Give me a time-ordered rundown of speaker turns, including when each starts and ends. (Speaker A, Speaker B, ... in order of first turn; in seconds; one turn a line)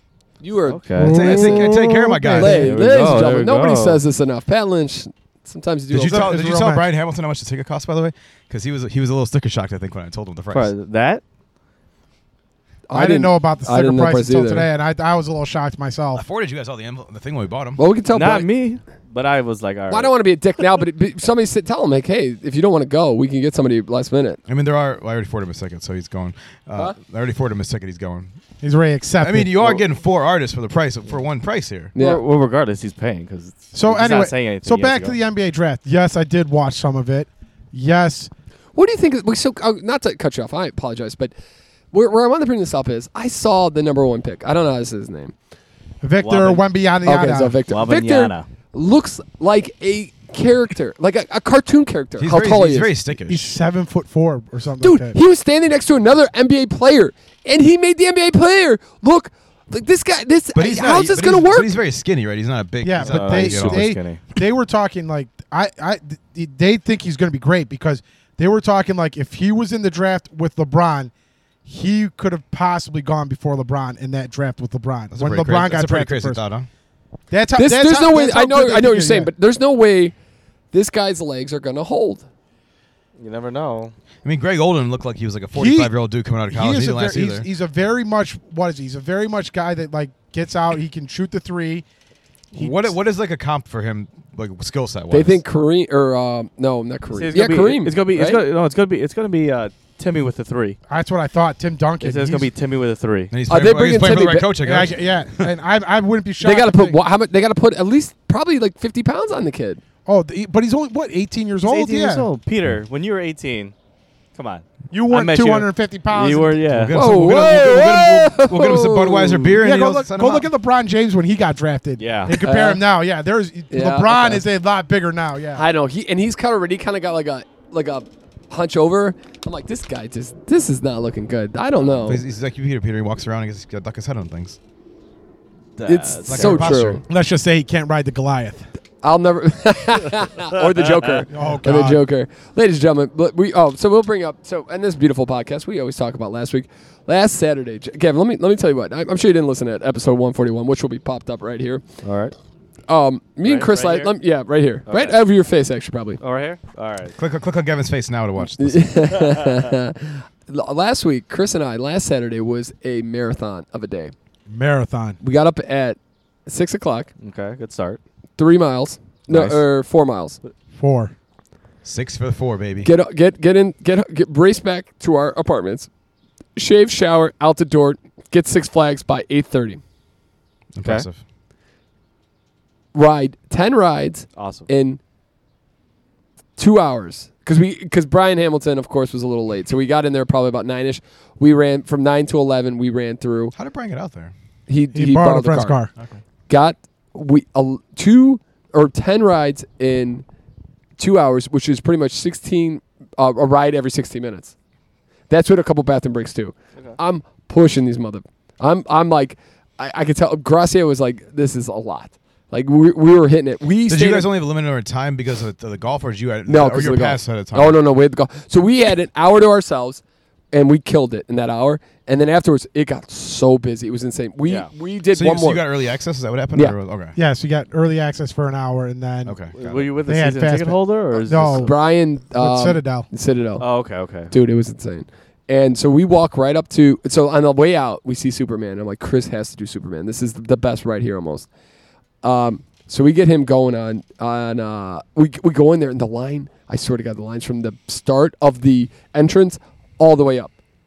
Speaker A: 0.4-1.8
Speaker B: 0.7-1.2
Speaker C: 0.9-2.7
Speaker D: 1.0-2.8
Speaker A: 2.4-6.3
Speaker B: 2.5-4.0
Speaker D: 5.9-10.7
Speaker C: 6.0-6.9
Speaker B: 10.5-11.2
Speaker A: 12.9-14.7
Speaker C: 12.9-16.2
Speaker D: 16.1-17.8
Speaker A: 17.8-18.5
Speaker B: 18.1-20.1
Speaker A: 19.9-24.4
Speaker D: 24.5-28.3
Speaker C: 28.6-29.8
Speaker D: 29.2-31.9
Speaker A: 31.9-32.2
Speaker B: 31.9-35.2
Speaker C: 33.7-38.3
Speaker A: 38.8-41.3
Speaker A: 41.9-45.3
Speaker C: 46.0-47.6
Speaker B: 46.2-46.7
Speaker A: 47.0-52.9
Speaker B: 47.7-48.5
Speaker D: 52.2-53.6
Speaker C: 53.3-55.2
Speaker A: 54.8-61.7
Speaker D: 60.5-63.9
Speaker C: 62.8-71.1
Speaker B: 63.0-64.2
Speaker C: 71.6-76.4
Speaker D: 75.1-76.7
Speaker C: 77.3-79.3
Speaker A: 77.6-80.1
Speaker A: 80.7-82.2
Speaker B: 83.2-83.9
Speaker D: 84.2-87.5
Speaker C: 85.5-85.9
Speaker C: 86.5-91.9
Speaker D: 92.5-95.4
Speaker C: 92.5-93.0
Speaker A: 95.1-98.4
Speaker B: 97.1-100.8
Speaker C: 100.9-102.5
Speaker B: 102.0-103.3
Speaker D: 103.3-105.5
Speaker A: 103.5-104.5
Speaker C: 104.6-107.0
Speaker A: 106.4-109.8
Speaker C: 110.1-112.3
Speaker B: 111.6-113.7
Speaker B: 114.3-117.0
Speaker C: 114.9-117.6
Speaker D: 116.7-120.5
Speaker A: 116.9-119.5
Speaker C: 119.6-125.6
Speaker B: 122.0-122.4
Speaker A: 122.3-122.8
Speaker A: 123.7-124.4
Speaker A: 125.6-132.2
Speaker D: 132.0-134.6
Speaker B: 135.8-136.7
Speaker A: 135.8-137.0
Speaker D: 136.3-137.0
Speaker C: 137.1-138.7
Speaker A: 139.0-151.8
Speaker B: 140.9-141.2
Speaker C: 141.3-142.0
Speaker B: 152.0-152.3
Speaker A: 152.9-156.2
Speaker B: 153.4-154.1
Speaker B: 154.9-155.2
Speaker B: 156.2-157.1
Speaker D: 157.2-158.9
Speaker A: 158.6-164.1
Speaker B: 159.3-159.6
Speaker C: 164.5-165.2
Speaker A: 165.2-167.1
Speaker B: 167.2-168.0
Speaker A: 168.4-170.4
Speaker B: 169.3-169.6
Speaker C: 170.8-171.1
Speaker D: 171.8-172.9
Speaker A: 172.8-175.9
Speaker A: 176.6-179.8
Speaker D: 180.8-181.2
Speaker A: 182.9-185.0
Speaker B: 184.4-184.7
Speaker A: 186.6-193.6
Speaker D: 193.6-194.3
Speaker A: 194.7-195.8
Speaker C: 194.9-195.9
Speaker A: 196.5-200.2
Speaker A: 201.0-204.5
Speaker A: 205.3-214.3
Speaker D: 213.9-217.8
Speaker A: 216.5-225.6
Speaker D: 225.1-227.2
Speaker C: 227.2-229.3
Speaker D: 229.2-229.9
Speaker B: 229.5-231.7
Speaker C: 230.1-231.8
Speaker A: 231.6-233.7
Speaker C: 232.3-233.1
Speaker B: 233.6-234.3
Speaker A: 234.3-241.5
Speaker A: 242.2-250.5